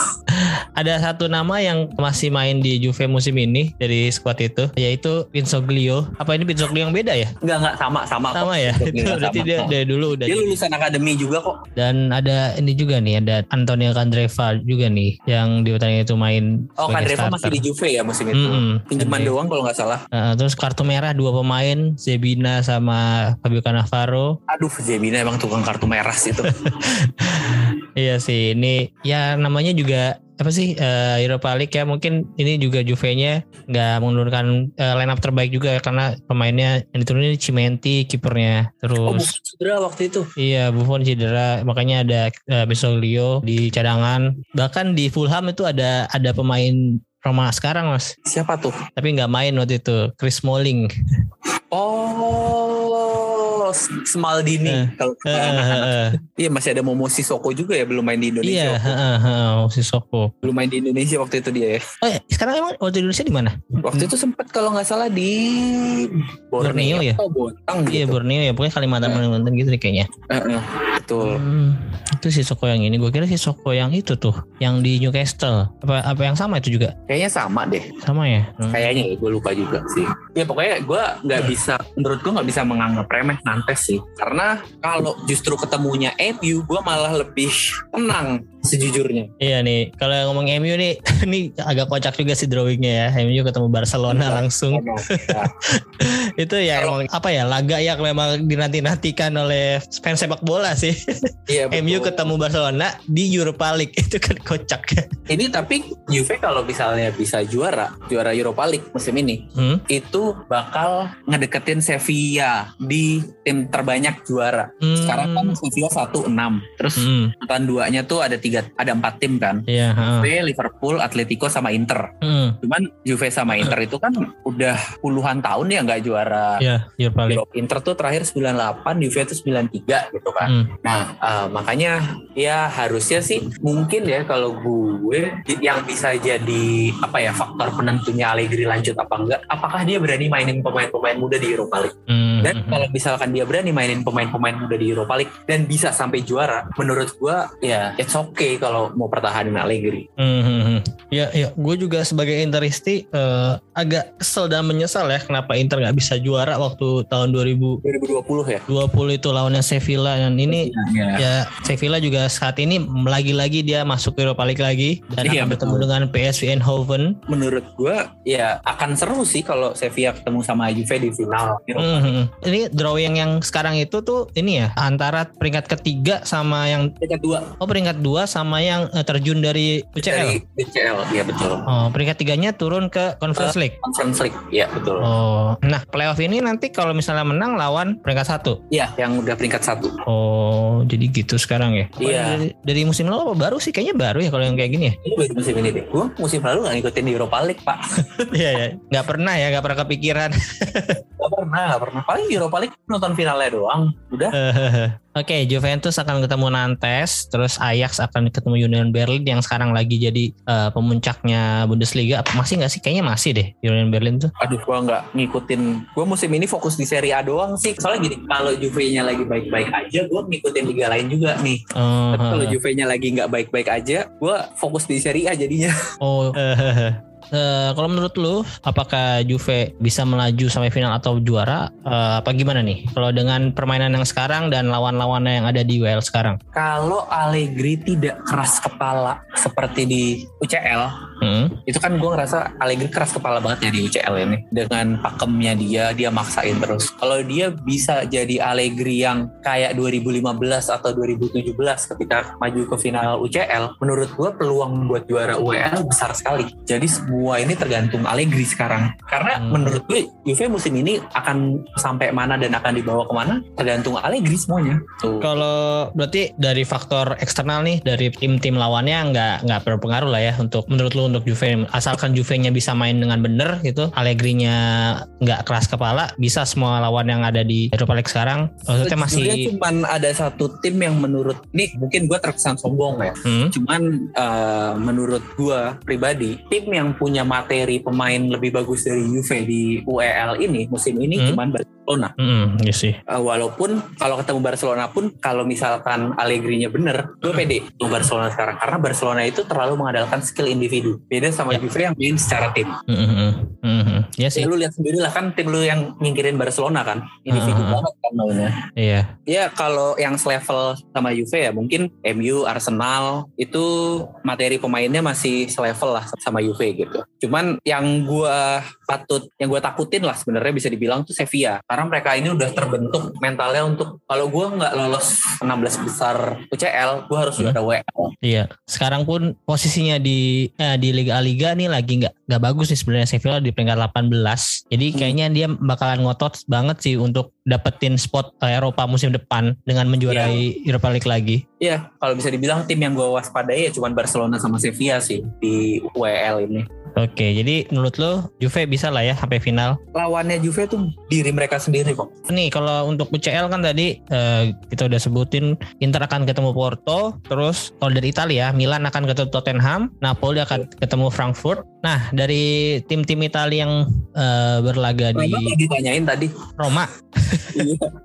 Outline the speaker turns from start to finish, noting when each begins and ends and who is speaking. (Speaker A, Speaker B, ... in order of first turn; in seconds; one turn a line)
Speaker A: 0.3-7.3
Speaker B: 7.4-9.7
Speaker A: 8.3-10.5
Speaker B: 10.2-11.6
Speaker A: 11.8-17.6
Speaker B: 16.8-20.0
Speaker A: 18.3-19.4
Speaker A: 20.1-24.4
Speaker B: 24.5-26.6
Speaker A: 26.4-39.3
Speaker B: 39.0-40.3
Speaker A: 40.4-48.1
Speaker B: 48.3-48.8
Speaker A: 49.0-50.9
Speaker B: 51.7-59.0
Speaker A: 54.7-56.2
Speaker A: 58.4-60.5
Speaker B: 60.4-61.8
Speaker A: 62.0-64.1
Speaker B: 63.8-68.2
Speaker A: 66.6-67.2
Speaker A: 67.9-70.1
Speaker B: 70.3-71.4
Speaker A: 71.2-77.0
Speaker B: 77.1-77.9
Speaker A: 78.0-78.9
Speaker B: 78.7-89.3
Speaker A: 89.4-105.1
Speaker B: 94.1-95.5
Speaker B: 101.5-102.3
Speaker B: 105.3-119.7
Speaker A: 109.5-109.8
Speaker A: 114.8-115.6
Speaker A: 117.0-117.3
Speaker A: 119.7-120.3
Speaker B: 120.2-126.6
Speaker A: 122.2-122.6
Speaker A: 126.6-127.4
Speaker B: 127.3-150.1
Speaker A: 130.4-130.7
Speaker A: 142.1-142.9
Speaker A: 150.2-157.8
Speaker B: 157.8-158.7
Speaker A: 158.7-167.2
Speaker B: 160.5-161.2
Speaker B: 165.2-165.9
Speaker B: 167.3-172.1
Speaker A: 171.8-176.9
Speaker B: 177.0-177.5
Speaker A: 177.6-180.4
Speaker B: 180.0-181.7
Speaker A: 181.7-183.8
Speaker B: 183.4-185.1
Speaker A: 185.0-188.6
Speaker B: 188.7-190.0
Speaker A: 190.1-195.0
Speaker B: 192.0-192.4
Speaker B: 195.0-198.3
Speaker A: 198.3-201.0
Speaker B: 201.2-204.4
Speaker A: 204.3-214.3
Speaker B: 214.4-221.6
Speaker A: 221.8-222.6
Speaker B: 222.1-225.8
Speaker A: 226.0-236.4
Speaker B: 236.6-241.0
Speaker A: 241.2-241.6
Speaker B: 241.7-265.3
Speaker A: 259.4-259.8
Speaker A: 265.2-279.5
Speaker B: 278.8-292.1
Speaker A: 283.2-283.5
Speaker A: 292.2-293.0
Speaker B: 293.1-302.8
Speaker A: 302.9-304.5
Speaker B: 304.3-308.6
Speaker A: 307.3-307.8
Speaker A: 308.8-309.1
Speaker B: 309.3-328.1
Speaker A: 328.2-341.4
Speaker B: 340.1-340.4
Speaker B: 341.6-346.7
Speaker A: 347.0-349.8
Speaker B: 349.9-352.2
Speaker A: 352.3-365.6
Speaker B: 365.2-366.5
Speaker A: 366.6-367.7
Speaker B: 367.5-367.9